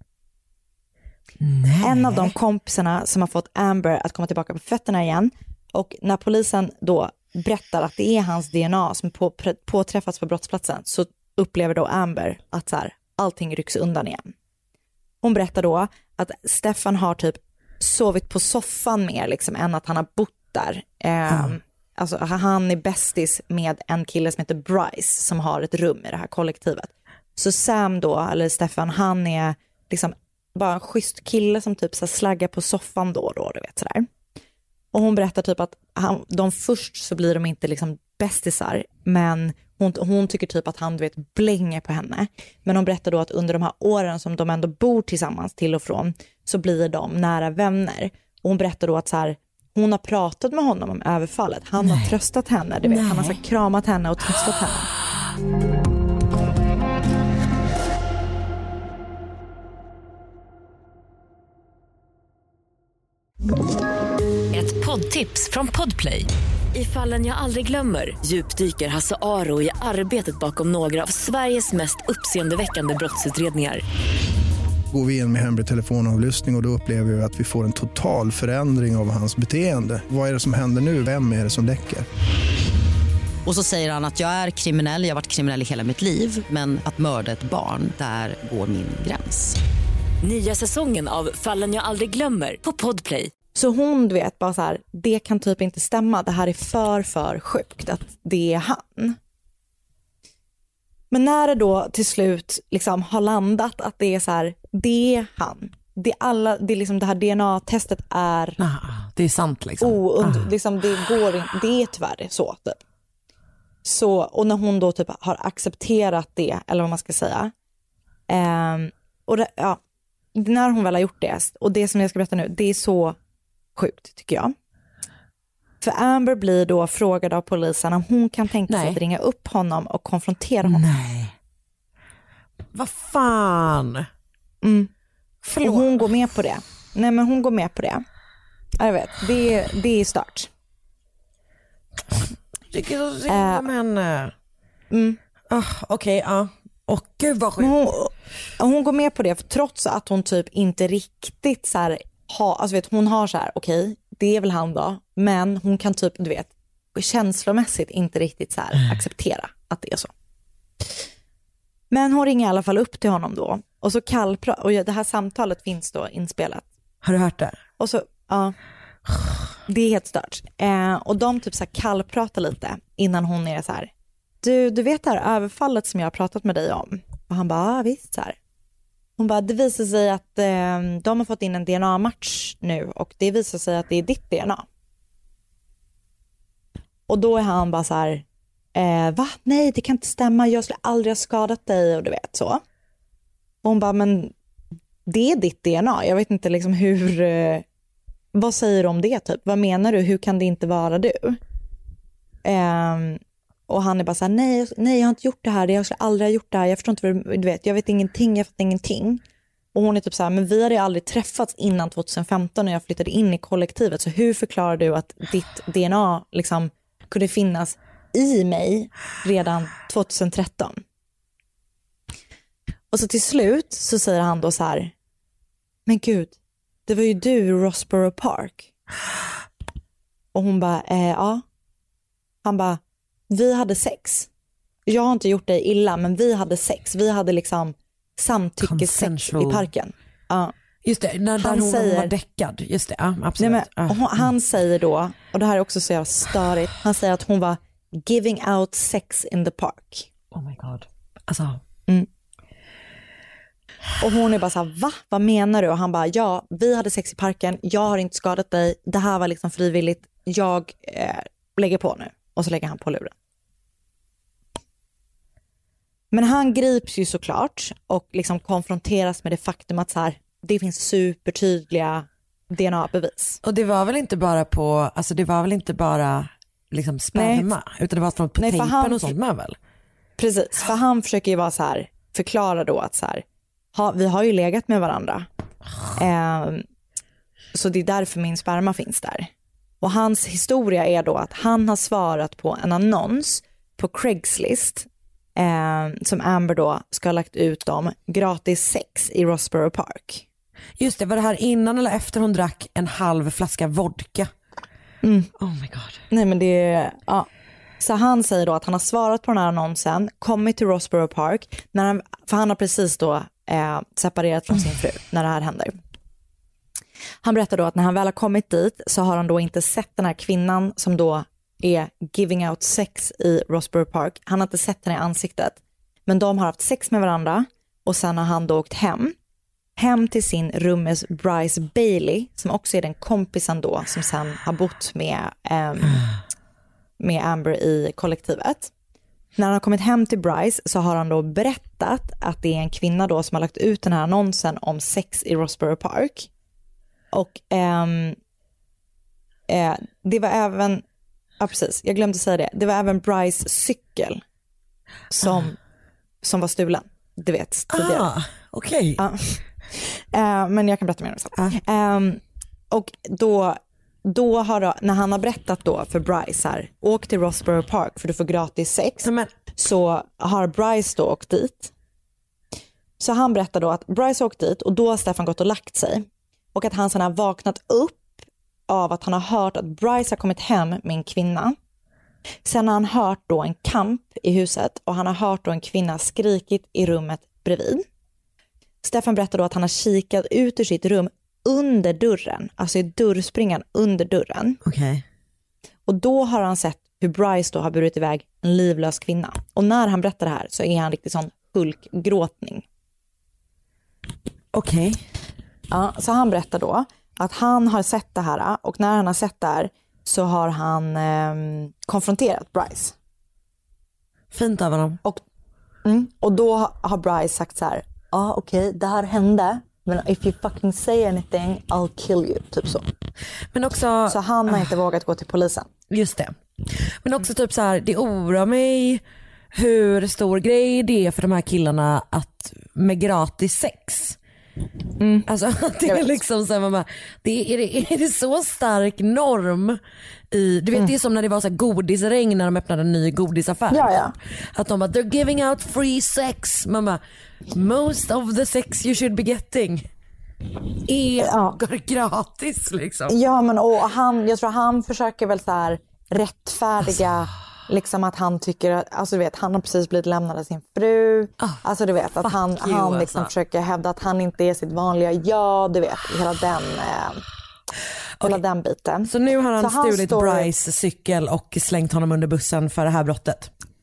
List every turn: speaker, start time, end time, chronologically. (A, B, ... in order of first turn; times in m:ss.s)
0:01.4-0:02.3 A
0:01.8-0:14.3 B
0:15.2-0:34.1 B
0:34.9-0:54.9 B
0:51.8-0:52.1 A
0:52.8-0:53.4 A
1:04.5-1:13.8 C
1:14.9-1:22.0 D
1:23.4-1:29.6 E
1:30.2-1:33.3 C
1:33.5-1:39.2 B
1:41.1-1:48.6 B
1:48.6-1:50.5 A
1:49.8-1:52.8 B
1:53.8-1:57.5 B
1:58.3-1:59.8 B
2:00.3-2:03.2 B
2:03.8-2:04.5 B
2:05.8-2:10.8 B
2:08.7-2:09.0 A
2:10.6-2:11.3 A
2:12.7-2:14.1 A
2:14.6-2:14.9 B
2:15.4-2:15.9 A
2:15.6-2:18.0 B
2:18.8-2:20.5 B
2:22.7-2:24.3 A
2:23.3-2:23.7 B
2:24.9-2:25.2 B
2:25.5-2:27.7 A
2:27.6-2:40.1 B
2:41.9-2:46.6 B
2:47.0-2:47.6 A
2:47.8-2:48.5 B
2:49.7-2:53.9 B
2:54.4-2:58.4 B
2:59.2-3:04.6 B
3:07.1-3:08.2 B
3:08.7-3:12.6 B
3:13.6-3:14.3 B
3:15.0-3:17.6 B
3:18.3-3:21.4 B
3:22.4-3:29.2 B
3:29.7-3:40.8 B
3:42.9-3:44.9 B
3:45.8-3:46.4 B
3:46.9-3:48.7 B
3:50.3-3:51.4 B
3:52.4-3:54.3 B
3:54.8-4:00.5 B
3:58.6-3:59.7 A
4:00.8-4:04.0 A
4:01.4-4:02.1 B
4:03.4-4:10.1 B
4:10.3-4:11.6 A
4:14.0-4:23.1 B
4:26.1-4:33.4 B
4:33.4-4:39.6 A
4:37.1-4:37.5 B
4:38.4-4:39.2 B
4:40.2-4:45.3 B
4:45.9-4:46.6 B
4:47.5-5:00.2 B
5:00.8-5:04.3 A
5:05.0-5:05.3 B
5:05.4-5:06.0 A
5:06.1-5:07.3 B
5:07.8-5:15.8 B
5:17.2-5:29.1 B
5:29.8-5:36.1 B
5:37.0-5:38.7 B
5:39.4-5:46.3 B
5:47.1-5:48.2 B
5:49.5-5:50.8 B
5:51.4-5:54.2 B
5:55.1-5:55.6 B
5:56.2-5:58.1 B
5:57.7-5:59.0 A
5:59.0-6:11.7 B
6:09.0-6:09.3 A
6:13.0-6:18.1 B
6:18.7-6:21.6 B
6:22.4-6:27.8 B
6:28.8-6:34.6 B
6:34.6-6:35.0 A
6:35.8-6:42.6 B
6:44.5-6:45.0 A
6:45.7-6:52.9 B
6:54.3-6:55.0 A
6:55.8-7:02.9 B
7:03.5-7:04.2 A
7:04.1-7:05.7 B
7:05.9-7:09.0 A
7:09.5-7:14.2 A
7:15.0-7:15.3 B
7:15.2-7:19.8 A
7:20.3-7:27.0 A
7:23.7-7:24.1 B
7:27.5-7:29.9 A
7:30.8-7:33.2 A
7:31.2-7:31.6 B
7:33.1-7:47.2 B
7:42.2-7:43.3 A
7:48.2-7:50.5 B
7:49.0-7:53.5 A